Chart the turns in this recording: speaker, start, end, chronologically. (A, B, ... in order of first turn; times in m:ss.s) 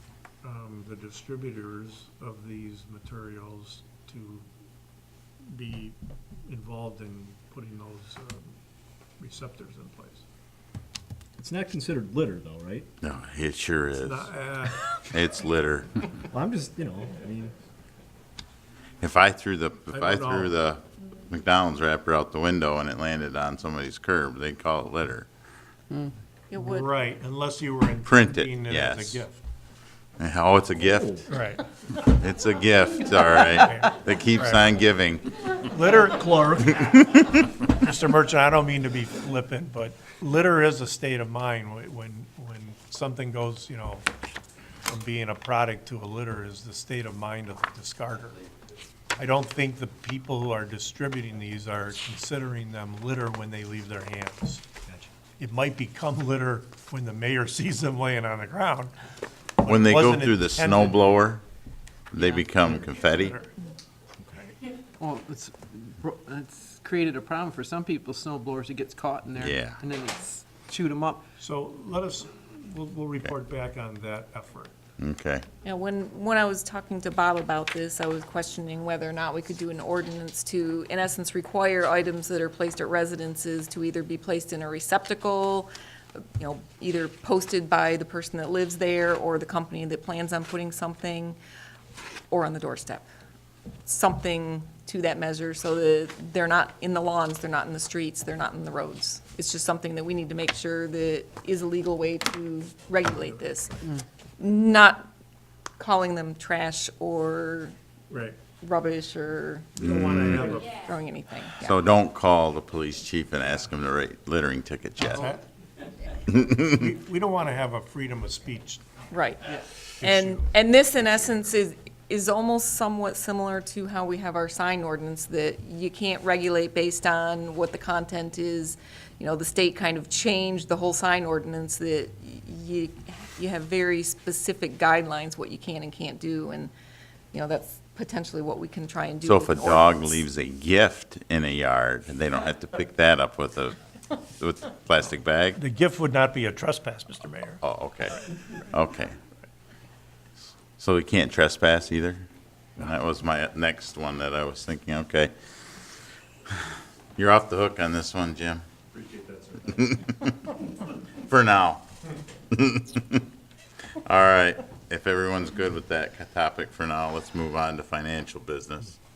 0:00.4-0:04.5 A
0:05.4-0:08.6 A
0:09.2-0:10.2 A
0:11.4-0:12.9 B
0:13.0-0:16.1 C
0:14.0-0:14.9 A
0:16.3-0:17.5 B
0:19.0-0:25.3 C
0:19.9-0:20.6 A
0:26.5-0:26.9 D
0:26.6-0:29.4 A
0:28.0-0:29.2 C
0:30.2-0:31.3 C
0:30.8-0:31.2 B
0:31.3-0:31.6 A
0:32.0-0:35.2 C
0:33.6-0:34.6 A
0:35.5-0:44.0 A
0:44.8-0:48.4 A
0:49.2-0:54.6 A
0:55.4-0:58.9 A
0:59.6-1:01.1 A
0:59.6-1:01.4 C
1:02.1-1:03.4 C
1:02.4-1:03.5 A
1:05.0-1:11.2 E
1:09.3-1:09.8 C
1:11.4-1:14.8 A
1:15.0-1:15.4 C
1:15.6-1:25.7 D
1:26.4-1:31.4 D
1:32.3-1:33.1 D
1:33.8-1:43.8 D
1:44.4-1:45.0 D
1:45.8-1:47.7 D
1:48.1-1:48.4 A
1:48.6-1:51.7 D
1:49.8-1:50.8 A
1:49.8-1:50.6 C
1:51.6-1:55.3 C
1:55.0-1:55.4 A
1:56.3-1:56.7 C
1:56.7-1:58.8 A
1:59.1-2:16.7 D
2:00.0-2:00.4 A
2:17.3-2:20.2 D
2:19.2-2:25.6 C
2:25.6-2:27.6 A
2:27.6-2:29.2 C
2:30.8-2:35.3 C
2:36.5-2:38.6 C
2:39.8-2:40.3 C
2:41.3-2:41.8 C
2:42.5-2:43.2 C
2:44.0-2:49.0 C